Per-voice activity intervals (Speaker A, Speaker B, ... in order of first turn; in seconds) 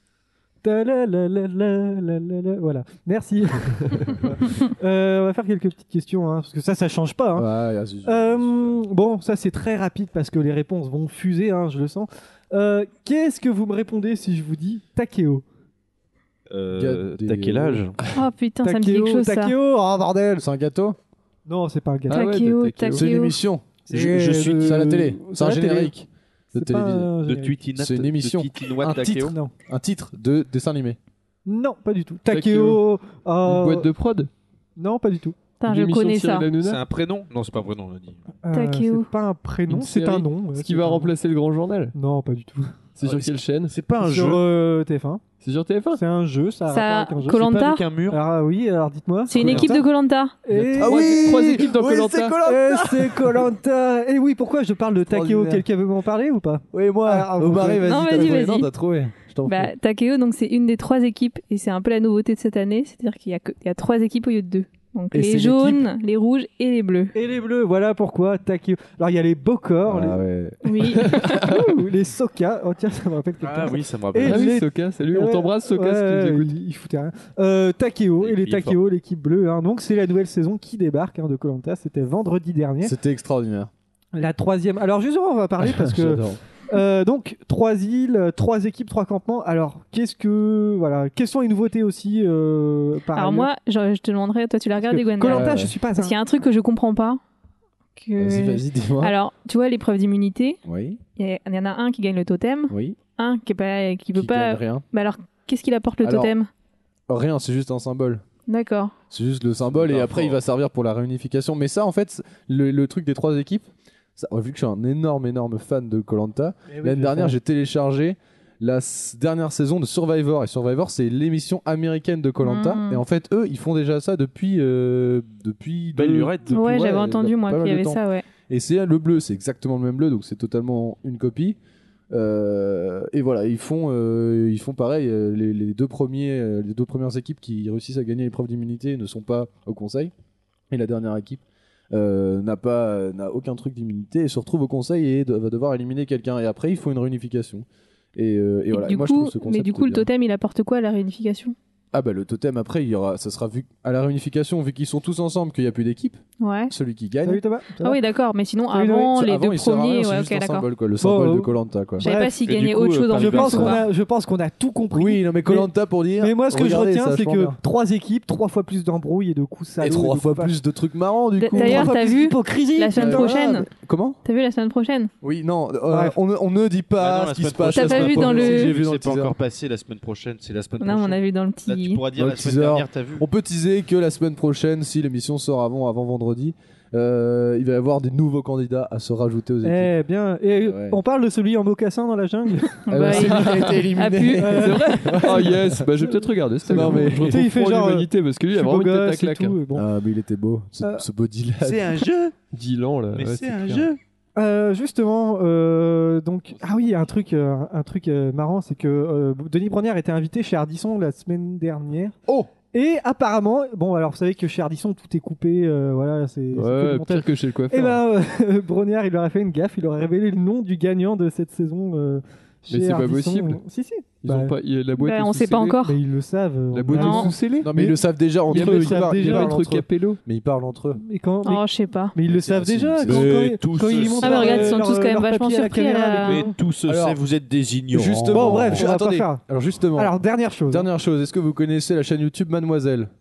Speaker A: 0.6-7.5, 8.0-15.4, 18.6-20.4, 21.4-22.3, 23.9-25.9, 26.5-27.6, 28.8-29.5, 31.4-33.9, 34.8-35.4, 38.4-41.1, 41.9-42.8, 44.0-45.2, 45.9-47.4, 48.1-49.8, 50.4-51.2, 52.4-57.9, 67.1-70.2, 71.0-82.9, 84.1-93.5, 94.8-96.2, 116.7-117.3, 157.2-158.0, 158.7-159.1, 161.0-162.4, 163.1-170.5, 171.5-173.6, 175.9-176.2, 189.6-192.8, 194.4-195.2, 196.7-199.9, 204.3-212.2, 212.7-224.6, 225.8-229.8, 230.9-236.5, 238.3-239.4, 240.0-240.9
Speaker B: 7.3-8.8, 16.7-17.9, 20.4-21.0, 22.9-27.1, 27.7-28.5, 29.7-31.0, 49.3-49.8, 50.8-53.5, 55.0-55.6, 56.7-59.7, 65.1-65.8, 69.8-70.6, 82.8-83.7, 85.6-86.4, 95.3-95.7, 98.2-99.1, 100.6-101.0, 102.7-103.0, 104.1-104.8, 106.0-106.3, 107.1-108.2, 109.1-131.6, 132.1-140.1, 140.7-150.1, 151.9-157.4, 158.9-162.0, 164.9-167.6, 169.8-172.0, 172.9-174.2, 175.2-179.4, 182.2-189.9, 190.6-191.0, 192.9-195.9, 196.6-197.5, 199.7-202.0, 227.6-231.0, 232.3-233.6, 236.8-237.2, 237.9-240.1, 240.7-243.1
Speaker C: 16.5-18.0, 23.9-24.5, 27.2-29.3, 36.6-38.2, 43.0-44.4, 47.3-48.2, 73.4-74.6, 78.2-78.8, 109.6-110.4, 125.9-126.6, 162.4-163.8, 177.0-183.2, 201.6-202.4, 203.1-204.0, 232.3-234.8, 236.2-238.9
Speaker D: 18.1-19.5, 22.1-23.4, 35.6-36.5, 38.5-39.1, 46.7-47.9, 49.3-50.4, 57.8-58.7, 59.4-67.1, 70.6-71.3, 93.1-97.2, 98.0-100.6, 101.2-106.5, 108.5-108.9, 122.4-123.0, 126.5-128.2, 148.7-151.6, 156.4-156.7, 157.8-160.7, 162.0-163.9, 171.4-173.7, 174.2-175.1, 177.7-178.8, 180.8-182.0, 192.8-195.3, 224.9-225.9, 226.9-227.3, 231.4-232.1, 234.2-236.4
Speaker E: 22.1-23.1, 32.3-32.8, 33.4-34.3, 35.6-36.8, 39.7-41.9, 43.0-43.7, 45.4-46.0, 50.5-52.4, 71.0-71.8, 74.2-76.5, 193.1-193.9, 194.8-199.6, 202.5-203.9, 206.6-207.0, 216.5-218.0, 222.7-223.6, 224.2-225.8, 226.7-227.7, 228.5-230.2